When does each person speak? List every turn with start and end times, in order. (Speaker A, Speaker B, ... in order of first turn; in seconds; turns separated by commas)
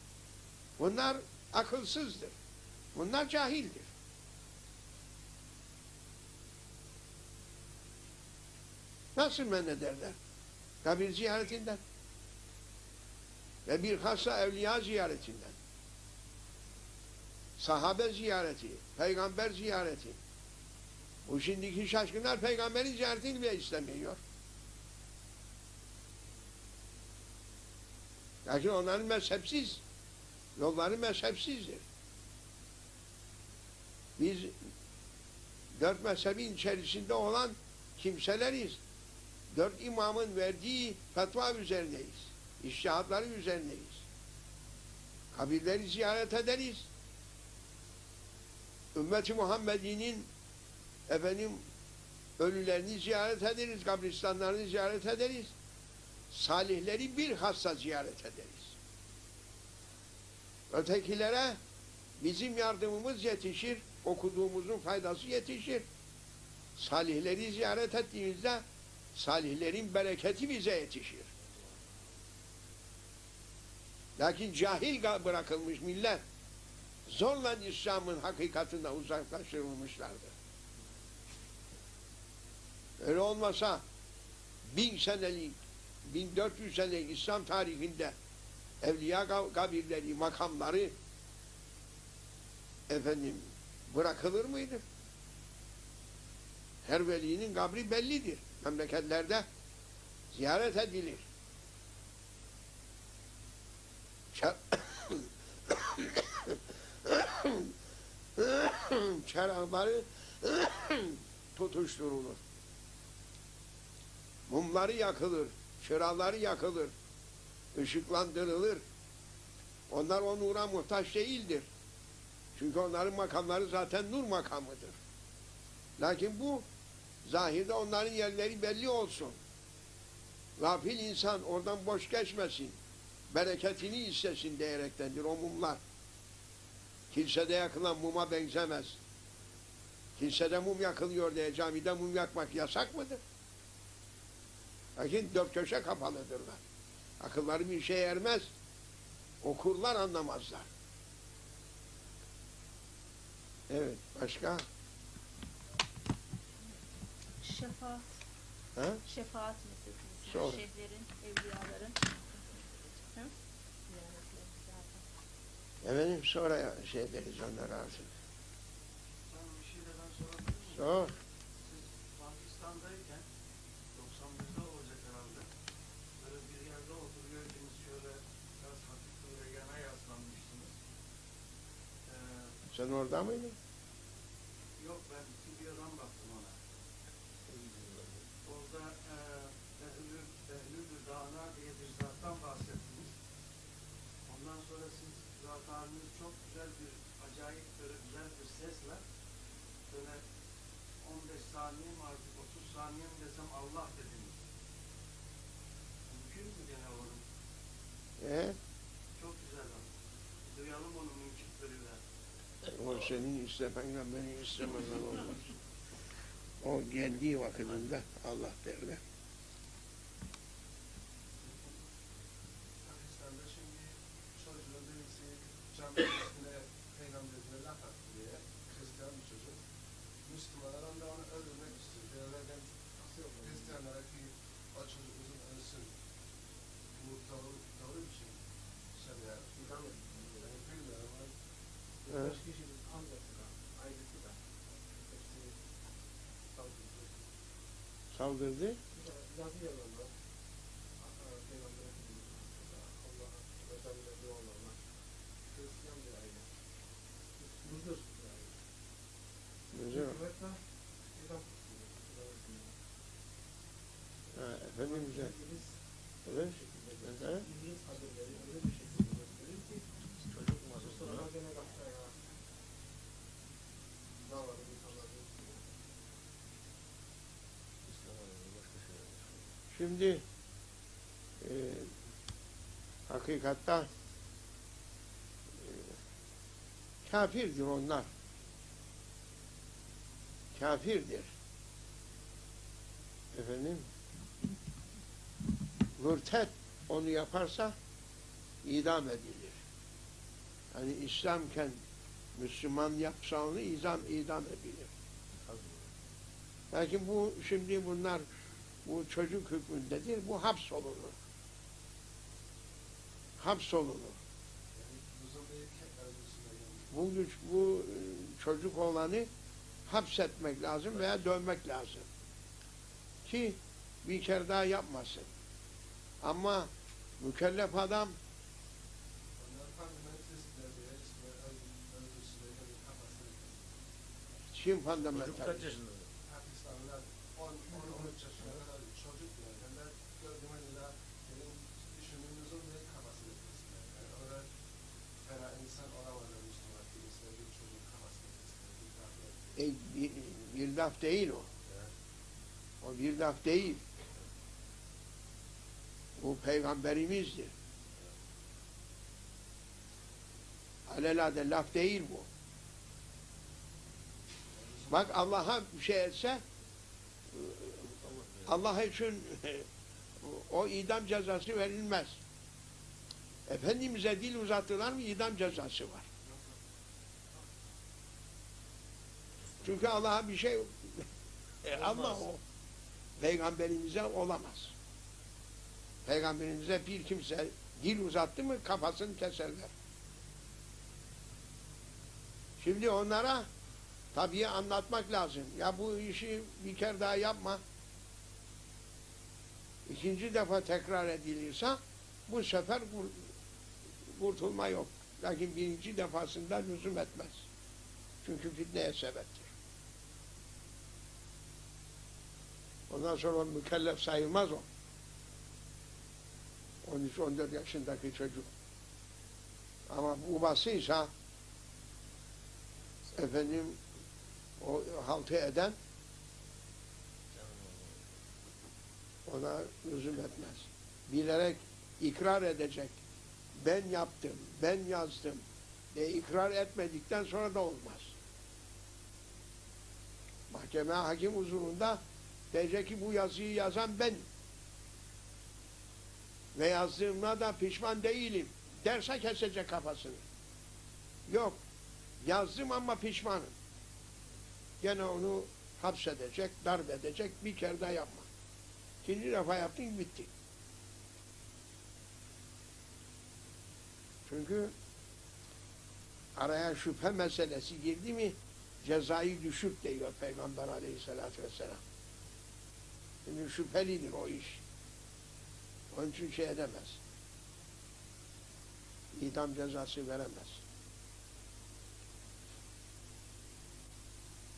Speaker A: 0.8-2.3, Speaker A: 2.9-3.9, Speaker A: 9.2-10.2, Speaker A: 10.8-11.8, Speaker A: 13.7-15.5, Speaker A: 17.6-20.2, Speaker A: 21.2-24.2, Speaker A: 28.4-29.8, Speaker A: 30.6-31.8, Speaker A: 34.2-34.5, Speaker A: 35.7-38.8, Speaker A: 39.5-44.0, Speaker A: 45.3-46.9, Speaker A: 48.9-50.3, Speaker A: 51.1-51.6, Speaker A: 52.4-55.5, Speaker A: 56.3-58.7, Speaker A: 60.7-61.6, Speaker A: 62.2-65.8, Speaker A: 66.8-68.6, Speaker A: 69.1-71.3, Speaker A: 74.2-76.2, Speaker A: 77.1-80.3, Speaker A: 83.0-83.8, Speaker A: 84.6-88.1, Speaker A: 88.8-90.9, Speaker A: 92.9-94.8, Speaker A: 96.8-99.5, Speaker A: 100.3-101.2, Speaker A: 104.3-107.7, Speaker A: 108.4-112.4, Speaker A: 114.5-116.9, Speaker A: 117.7-118.8, Speaker A: 119.9-121.7, Speaker A: 122.5-125.0, Speaker A: 126.0-126.6, Speaker A: 127.2-129.4, Speaker A: 130.6-132.8, Speaker A: 133.3-135.8, Speaker A: 137.1-139.0, Speaker A: 140.2-143.2, Speaker A: 145.0-146.6, Speaker A: 147.2-148.5, Speaker A: 149.4-150.7, Speaker A: 153.7-154.6, Speaker B: 157.4-158.1, Speaker A: 158.8-159.0, Speaker B: 159.0-162.1, Speaker A: 160.2-160.6, Speaker B: 163.9-165.0, Speaker A: 165.8-168.1, Speaker C: 169.3-171.0, Speaker A: 170.7-171.1, Speaker C: 171.6-173.2, Speaker C: 173.9-175.5, Speaker C: 176.2-180.7, Speaker C: 182.1-182.5, Speaker A: 182.7-183.5, Speaker C: 184.8-186.5, Speaker D: 187.7-188.0, Speaker C: 188.4-193.1, Speaker C: 194.3-199.0, Speaker C: 199.9-200.2, Speaker C: 201.0-204.4, Speaker C: 206.1-207.2, Speaker A: 208.2-208.6, Speaker C: 209.2-209.8, Speaker C: 210.5-212.0, Speaker A: 212.7-215.4, Speaker A: 216.6-219.0, Speaker E: 222.8-229.6, Speaker E: 230.2-235.9, Speaker E: 236.9-238.3, Speaker E: 238.9-241.3, Speaker E: 242.1-243.0, Speaker E: 243.7-244.1, Speaker E: 245.1-245.5, Speaker E: 246.6-247.1, Speaker A: 248.1-248.8, Speaker E: 249.0-250.1, Speaker E: 251.5-254.7, Speaker E: 255.5-256.4, Speaker E: 257.6-258.1, Speaker A: 259.7-260.2, Speaker A: 264.3-265.4, Speaker A: 266.2-267.4, Speaker E: 268.7-269.3, Speaker D: 270.3-271.3, Speaker E: 270.8-272.1, Speaker E: 274.2-275.5, Speaker D: 277.8-279.5, Speaker A: 279.7-280.2, Speaker A: 281.4-281.9, Speaker A: 283.1-283.9, Speaker A: 287.0-288.1, Speaker A: 290.5-291.3, Speaker A: 293.3-293.8, Speaker A: 296.0-297.7, Speaker A: 298.6-299.6, Speaker A: 300.7-301.8, Speaker A: 302.4-304.9, Speaker D: 305.4-305.9, Speaker A: 306.7-308.2, Speaker A: 308.8-311.1, Speaker A: 313.4-314.2, Speaker E: 314.7-316.9, Speaker A: 316.9-319.3, Speaker A: 319.9-322.1, Speaker A: 323.2-325.3, Speaker A: 326.2-328.1, Speaker E: 329.4-333.8, Speaker A: 334.5-335.7, Speaker D: 335.1-336.1, Speaker E: 336.2-344.4, Speaker E: 345.2-349.6, Speaker A: 349.6-351.5, Speaker A: 352.8-353.8, Speaker A: 356.2-357.5, Speaker A: 360.9-362.3, Speaker A: 364.9-366.4, Speaker A: 367.3-367.9, Speaker D: 368.0-368.6, Speaker A: 368.4-369.6, Speaker A: 370.2-372.2, Speaker A: 373.5-376.1, Speaker D: 379.6-379.9, Speaker A: 379.6-381.1, Speaker A: 381.6-382.4, Speaker D: 381.7-382.2, Speaker A: 383.2-384.7, Speaker A: 386.1-389.7, Speaker A: 392.6-393.5, Speaker A: 394.1-397.6, Speaker A: 399.9-403.3, Speaker A: 404.1-407.4, Speaker A: 408.2-409.5, Speaker A: 412.9-414.6, Speaker A: 416.8-418.5, Speaker A: 419.9-421.1, Speaker A: 423.1-423.8, Speaker A: 424.6-425.8, Speaker D: 427.3-428.0, Speaker A: 429.3-432.9, Speaker A: 433.6-438.1, Speaker A: 440.5-444.2, Speaker A: 446.5-450.2, Speaker A: 451.3-451.6, Speaker A: 452.2-453.5, Speaker A: 454.8-458.3, Speaker A: 459.0-460.3, Speaker A: 464.2-464.7, Speaker A: 466.4-471.8, Speaker A: 473.2-474.6, Speaker A: 475.9-477.0, Speaker A: 479.1-480.6